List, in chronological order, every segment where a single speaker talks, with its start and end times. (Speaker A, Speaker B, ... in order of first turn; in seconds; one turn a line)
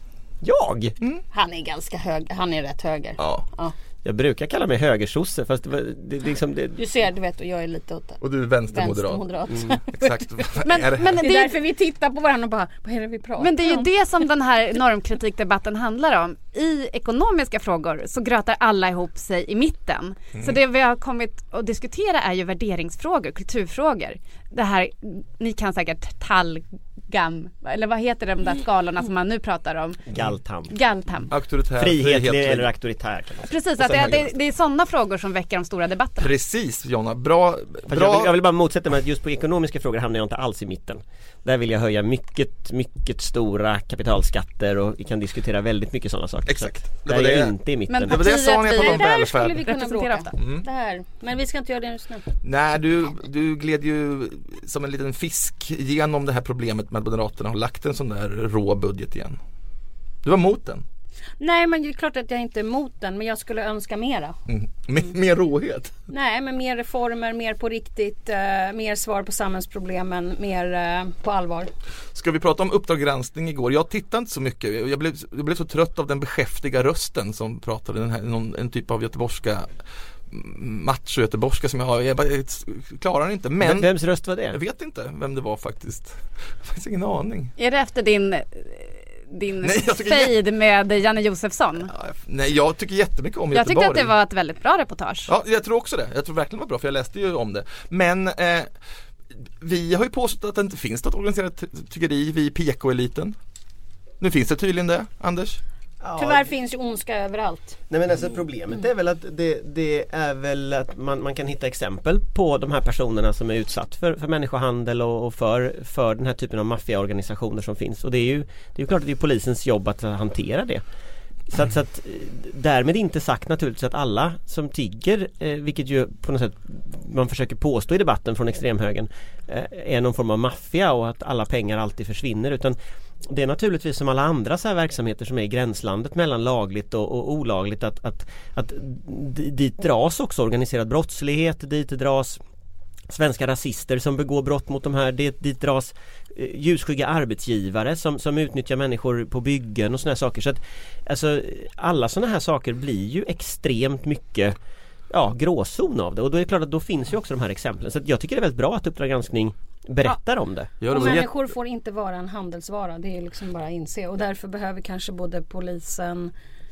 Speaker A: 0.4-0.9
Speaker B: 1.3-3.7
Speaker C: 3.2-3.5
Speaker A: 4.0-6.8
Speaker B: 6.8-10.3
Speaker C: 8.2-9.3
Speaker C: 9.9-11.3
Speaker D: 10.6-11.6
Speaker B: 11.2-13.9
Speaker D: 13.4-30.1
Speaker A: 30.1-30.7
Speaker D: 30.7-31.3
Speaker C: 31.3-32.7
Speaker A: 31.8-34.2
Speaker D: 33.4-36.3
Speaker C: 33.8-34.3
Speaker C: 36.2-38.4
Speaker A: 37.9-48.2
Speaker C: 46.5-47.5
Speaker D: 47.9-50.4
Speaker C: 48.0-49.6
Speaker B: 48.7-52.2
Speaker C: 50.4-50.6
Speaker C: 52.4-59.4
Speaker C: 60.2-60.9
Speaker B: 61.4-64.3
Speaker C: 64.5-66.0
Speaker B: 66.1-71.7
Speaker C: 72.1-79.7
Speaker C: 80.3-83.9
Speaker A: 83.6-84.6
Speaker C: 84.5-87.5
Speaker D: 87.6-91.9
Speaker C: 89.6-90.3
Speaker C: 91.9-94.1
Speaker D: 93.5-95.3
Speaker C: 95.3-98.7
Speaker C: 99.6-103.3
Speaker C: 104.2-105.6
Speaker A: 106.0-106.5
Speaker B: 106.2-107.8
Speaker A: 107.9-120.8
Speaker A: 121.5-132.8
Speaker A: 133.3-142.4
Speaker A: 143.1-154.6
Speaker A: 155.1-161.2
Speaker C: 160.8-161.4
Speaker B: 160.9-166.3